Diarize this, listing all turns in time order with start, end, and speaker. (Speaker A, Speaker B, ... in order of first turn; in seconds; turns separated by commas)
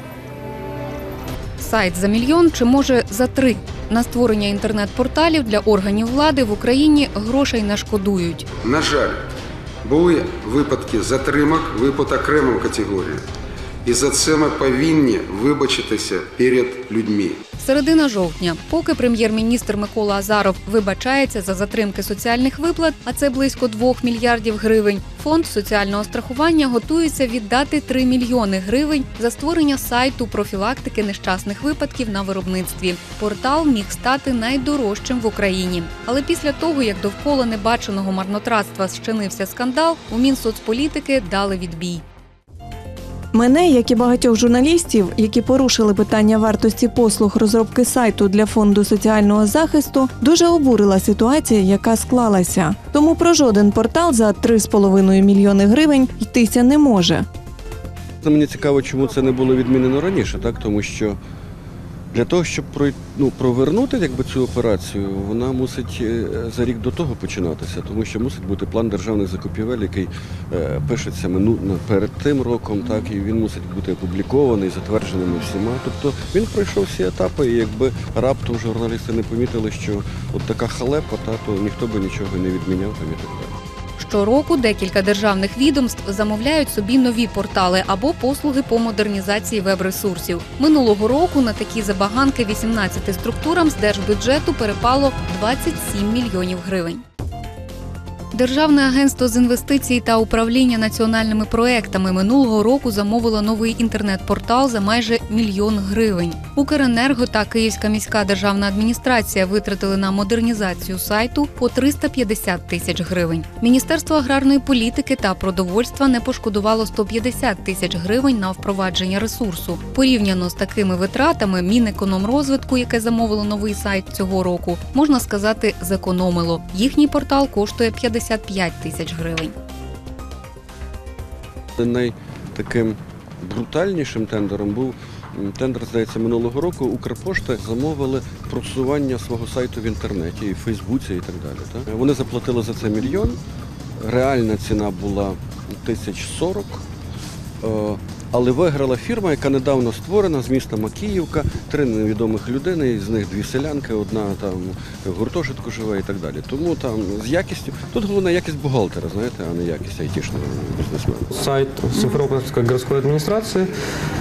Speaker A: 1.6-8.4, Speaker B: 8.6-9.2, Speaker B: 9.8-13.2, Speaker B: 13.8-17.4, Speaker A: 17.6-42.0, Speaker C: 43.3-57.2, Speaker D: 58.2-61.2, Speaker D: 62.1-83.5, Speaker A: 84.0-97.0, Speaker A: 98.3-129.5, Speaker D: 131.8-143.4, Speaker D: 144.0-146.8, Speaker D: 147.6-161.3, Speaker E: 161.3-163.7